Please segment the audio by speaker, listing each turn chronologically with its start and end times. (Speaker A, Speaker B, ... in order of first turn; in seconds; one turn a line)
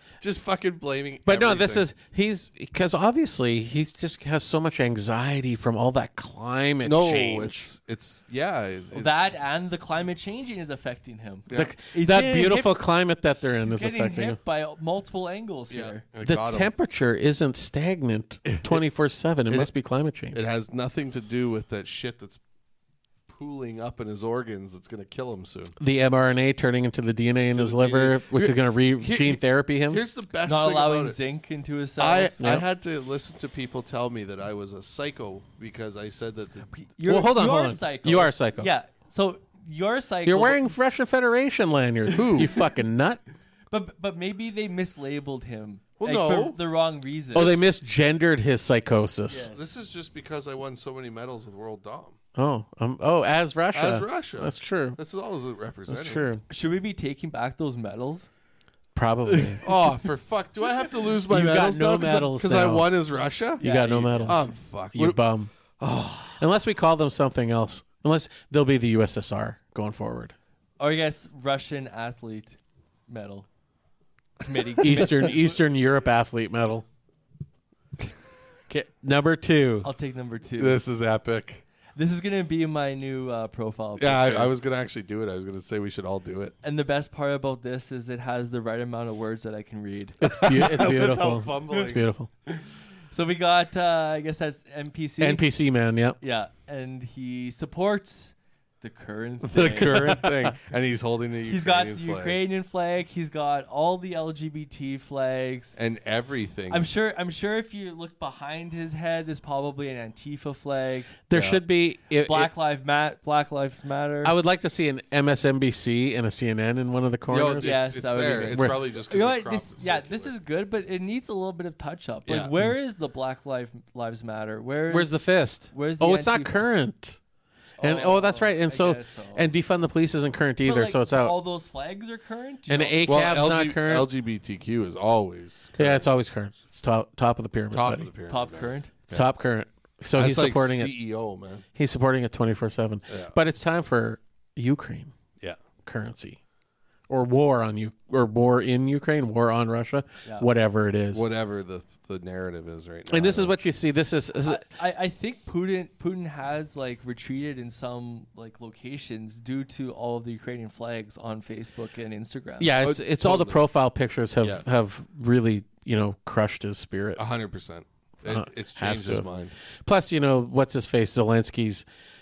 Speaker A: 0.2-1.9
Speaker B: 1.2-7.7
Speaker A: 6.8-9.2
Speaker C: 8.9-12.8
Speaker B: 11.5-14.4
Speaker C: 13.7-16.0
Speaker A: 15.7-16.7
Speaker B: 16.2-20.4
Speaker A: 18.4-18.8
Speaker A: 20.3-22.4
Speaker A: 23.3-25.8
Speaker B: 25.8-30.0
Speaker A: 27.5-31.2
Speaker C: 30.4-32.4
Speaker A: 32.0-36.7
Speaker B: 32.4-32.6
Speaker C: 36.7-40.7
Speaker B: 37.1-38.7
Speaker B: 40.2-43.2
Speaker A: 42.1-42.6
Speaker C: 43.7-47.6
Speaker A: 46.0-46.6
Speaker B: 47.3-49.5
Speaker C: 49.3-49.6
Speaker A: 49.5-52.2
Speaker B: 52.3-55.0
Speaker A: 53.7-56.3
Speaker B: 55.9-56.4
Speaker C: 56.5-58.3
Speaker B: 58.9-59.6
Speaker C: 59.3-59.8
Speaker A: 59.6-63.6
Speaker B: 61.3-62.9
Speaker B: 63.6-65.5
Speaker C: 63.6-64.5
Speaker A: 64.2-65.2
Speaker A: 65.8-66.5
Speaker B: 66.4-70.3
Speaker C: 70.8-73.5
Speaker C: 74.4-75.3
Speaker B: 74.8-76.8
Speaker A: 74.8-75.3
Speaker B: 78.7-79.9
Speaker C: 79.8-80.8
Speaker A: 80.6-81.6
Speaker C: 82.0-84.5
Speaker A: 84.0-86.5
Speaker C: 86.6-90.2
Speaker A: 90.2-92.0
Speaker B: 90.2-92.3
Speaker C: 92.5-95.4
Speaker B: 95.2-96.2
Speaker C: 96.2-100.2
Speaker A: 99.4-102.4
Speaker C: 101.5-105.7
Speaker A: 105.8-106.8
Speaker C: 106.7-111.1
Speaker B: 111.3-112.5
Speaker A: 111.3-111.6
Speaker C: 112.2-114.3
Speaker B: 114.2-117.8
Speaker A: 117.3-120.3
Speaker C: 117.6-126.6
Speaker B: 118.5-118.8
Speaker A: 122.3-122.5
Speaker B: 124.9-127.2
Speaker C: 127.8-129.4
Speaker B: 127.8-131.3
Speaker C: 130.6-133.0
Speaker B: 132.7-134.1
Speaker A: 133.0-136.1
Speaker B: 135.8-138.1
Speaker A: 137.7-139.3
Speaker C: 138.3-138.9
Speaker B: 139.1-140.9
Speaker A: 140.2-141.6
Speaker B: 141.8-145.1
Speaker A: 143.1-143.3
Speaker B: 145.8-146.4
Speaker B: 147.1-151.2
Speaker A: 151.1-153.5
Speaker B: 153.1-154.7
Speaker C: 154.4-162.7
Speaker B: 162.6-167.2
Speaker A: 162.8-163.6
Speaker A: 167.2-169.5
Speaker B: 168.3-169.3
Speaker B: 169.8-171.8